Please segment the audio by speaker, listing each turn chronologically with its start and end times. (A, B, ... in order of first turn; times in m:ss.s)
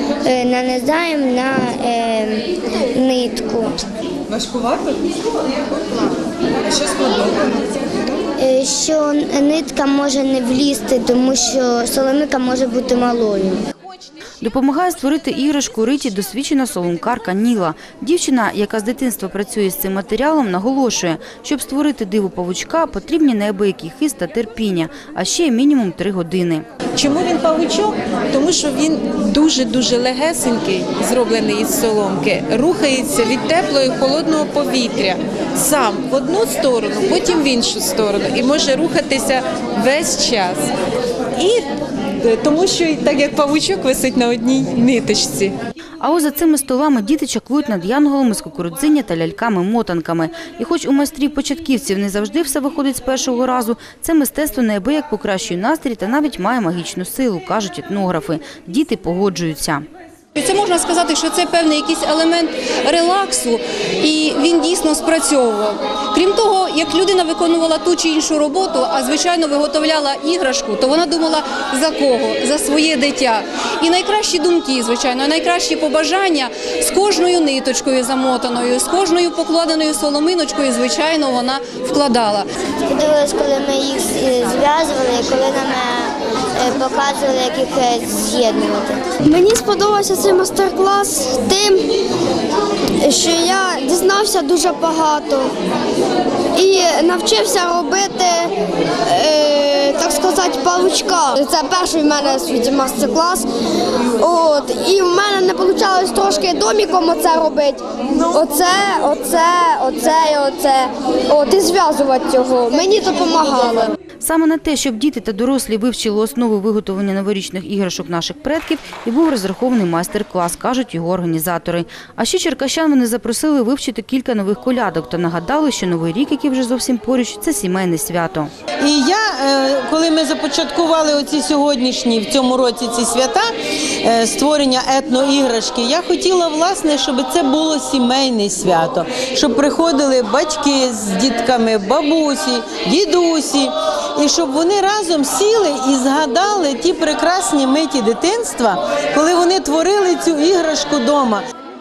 0:00.2-0:03.9 A
0:08.4-0:13.6 A
0:14.4-0:26.6 B
0:27.0-0:40.6 C
0:42.3-0:45.5 C
0:46.0-0:59.8 B
1:00.4-1:22.5 D
1:22.9-1:29.0 A
1:29.2-1:31.8 E
1:33.0-1:35.5 E
1:36.5-1:38.5 E
1:39.1-1:43.5 E
1:44.2-1:53.9 E
1:54.2-2:08.5 B
2:08.8-2:13.5 F
2:14.0-2:31.4 F